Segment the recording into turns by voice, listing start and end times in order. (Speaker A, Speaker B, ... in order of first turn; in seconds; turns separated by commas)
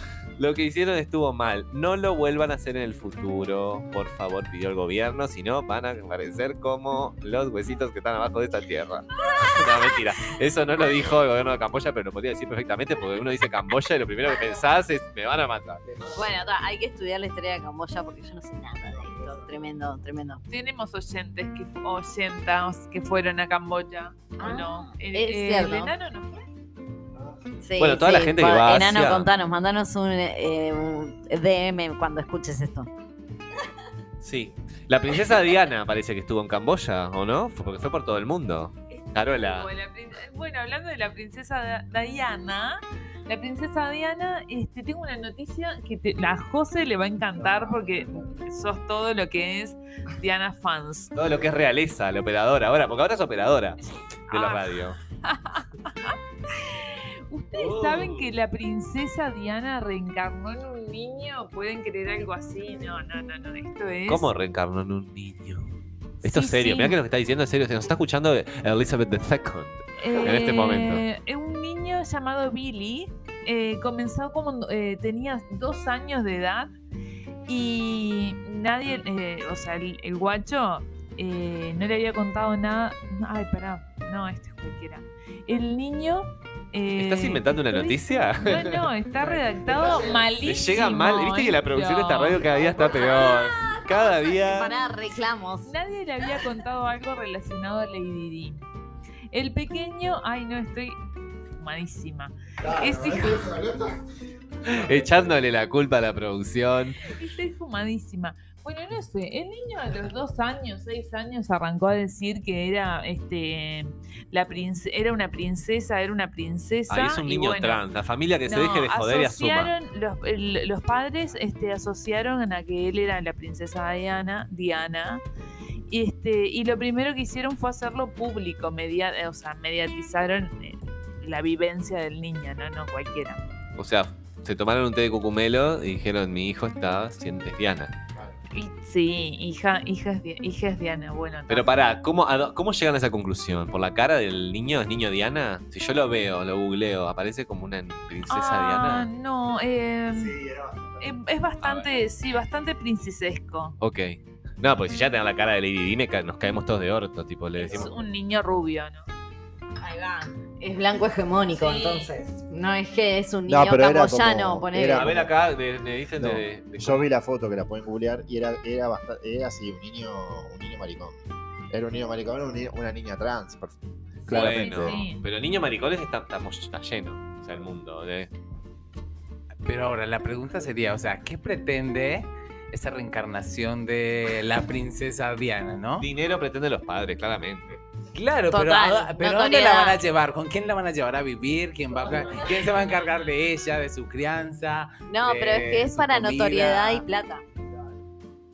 Speaker A: 0.4-15.8, Speaker B: 15.8-16.3, Speaker C: 16.1-20.4, Speaker B: 18.9-19.6, Speaker D: 20.5-26.4, Speaker C: 24.4-25.9, Speaker B: 27.1-27.6, Speaker C: 27.6-32.9, Speaker A: 27.8-29.3, Speaker A: 34.2-39.7, Speaker D: 38.9-51.1, Speaker B: 47.3-48.4, Speaker A: 51.1-55.0, Speaker D: 54.3-64.3, Speaker A: 57.5-58.3, Speaker A: 64.1-71.0, Speaker D: 66.2-67.0, Speaker D: 70.0-76.7, Speaker D: 77.5-93.0, Speaker A: 87.0-88.9, Speaker B: 89.6-90.3, Speaker A: 90.4-94.7, Speaker B: 92.4-93.0, Speaker C: 92.8-93.8, Speaker C: 94.4-95.7, Speaker D: 95.6-98.6, Speaker D: 99.3-101.0, Speaker D: 101.5-103.5, Speaker B: 102.6-104.0, Speaker B: 104.7-105.3, Speaker A: 104.7-107.0, Speaker D: 107.0-117.9, Speaker A: 116.9-119.7, Speaker D: 118.5-125.2, Speaker D: 125.9-133.4, Speaker A: 133.8-137.9, Speaker D: 138.5-141.7, Speaker A: 141.5-149.1, Speaker D: 148.3-150.4, Speaker B: 150.1-151.2, Speaker D: 151.0-153.7, Speaker A: 153.8-157.9, Speaker D: 157.6-159.1, Speaker C: 159.8-165.1, Speaker D: 161.5-162.1, Speaker B: 163.5-165.3, Speaker A: 164.9-167.1, Speaker B: 166.2-171.2, Speaker B: 171.7-175.0, Speaker D: 174.2-175.2, Speaker A: 174.3-178.3, Speaker E: 179.6-186.1, Speaker A: 186.0-187.8, Speaker E: 188.1-197.1, Speaker C: 188.5-190.0, Speaker C: 195.1-197.4